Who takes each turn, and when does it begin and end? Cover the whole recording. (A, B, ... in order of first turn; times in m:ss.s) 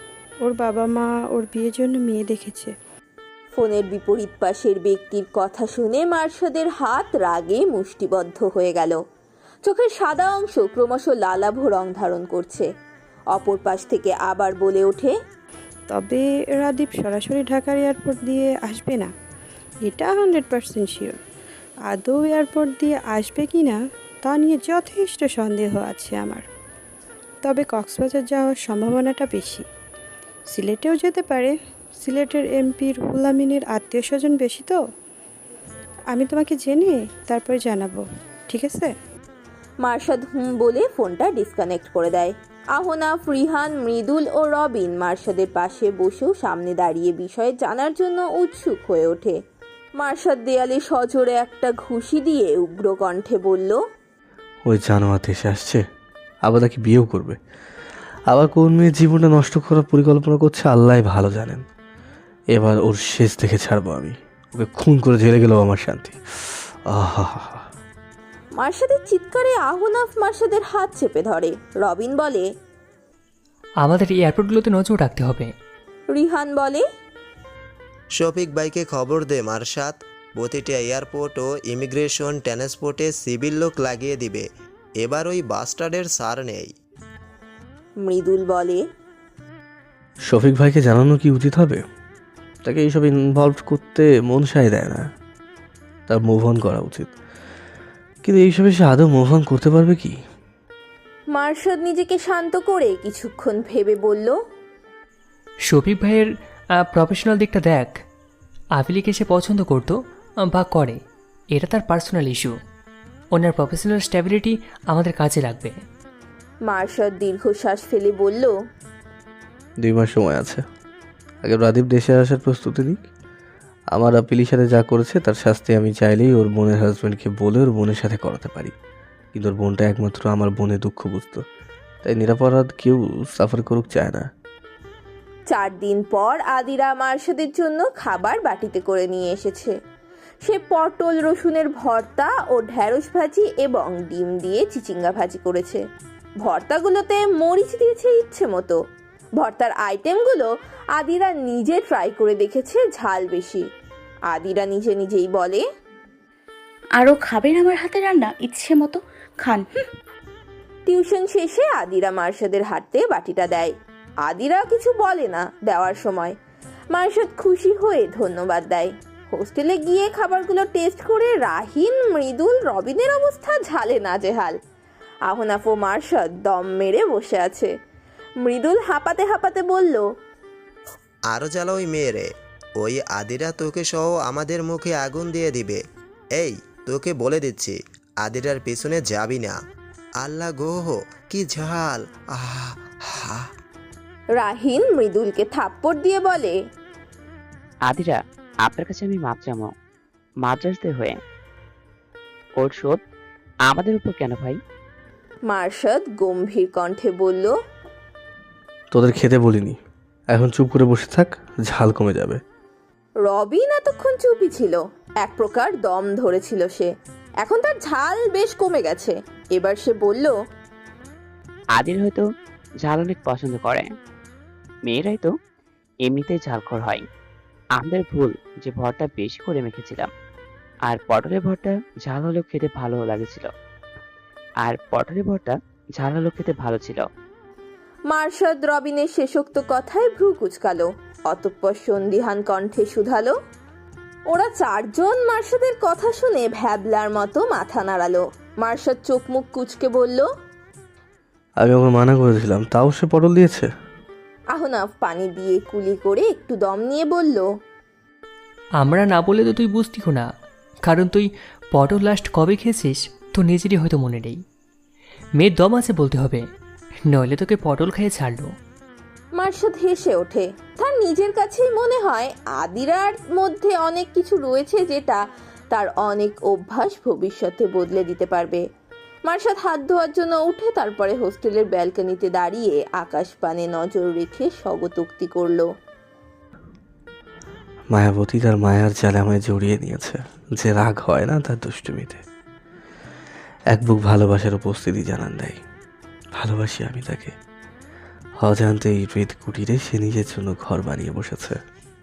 0:00.4-0:02.7 A
0:03.5-0:09.0 B
0:09.6-0:12.7 B
0:13.3-0:15.1 B
0:15.9-0:19.1 A
0:19.9-0:21.2 A
0:21.9-0:26.4 A
0:27.4-0:29.6 A
0:30.5-0:34.8 A
0:36.1-0:38.9 A
0:39.8-0:49.4 B
0:50.0-0:53.8 B
0:54.7-0:55.8 C
0:56.4-0:57.4 C
0:58.3-1:01.6 C
1:02.5-1:07.7 C
1:08.6-1:12.5 B
1:13.8-1:15.5 D
1:16.1-1:16.8 B
1:18.1-1:24.4 E
1:25.0-1:26.7 E
1:28.0-1:28.8 B
1:30.3-1:31.8 C
1:32.6-1:35.1 C
1:36.1-1:37.1 C
1:38.2-1:40.2 C
1:41.3-1:44.4 B
1:45.7-1:48.0 D
1:48.8-1:51.0 D
1:51.5-1:52.5 D
1:53.3-1:55.8 D
1:56.7-1:58.5 B
1:59.8-2:00.6 C
2:01.4-2:03.0 C
2:03.9-2:08.7 C
2:09.3-2:11.4 C
2:12.0-2:14.3 C
2:15.5-2:19.8 B
2:20.4-2:25.8 B
2:26.4-2:28.8 B
2:29.4-2:33.7 B
2:34.3-2:35.6 B
2:37.0-2:39.9 F
2:40.9-2:46.4 B
2:46.9-2:54.6 B
2:55.3-2:57.7 B
2:58.4-3:00.0 B
3:01.3-3:05.8 E
3:06.3-3:09.6 E
3:10.2-3:13.4 E
3:14.4-3:16.6 B
3:17.9-3:19.7 G
3:20.4-3:21.2 G
3:22.6-3:23.0 G
3:23.7-3:24.6 G
3:25.5-3:27.5 B
3:28.9-3:29.8 C
3:30.3-3:32.4 C
3:33.2-3:40.3 B
3:41.7-3:42.2 G
3:42.8-3:43.9 G
3:44.8-3:45.3 G
3:46.0-3:47.0 G
3:47.8-3:50.1 G
3:50.9-3:53.5 G
3:54.6-3:57.0 G
3:58.1-4:03.3 B
4:04.3-4:10.3 B
4:11.6-4:13.7 C
4:14.5-4:17.5 B
4:18.8-4:20.3 D
4:20.8-4:24.4 D
4:25.4-4:26.5 D
4:27.0-4:28.5 D
4:29.4-4:35.2 B
4:35.7-4:38.6 B
4:39.3-4:45.7 B
4:47.9-4:52.2 C
4:53.7-4:55.6 C
4:56.4-4:57.3 C
4:58.4-5:01.6 C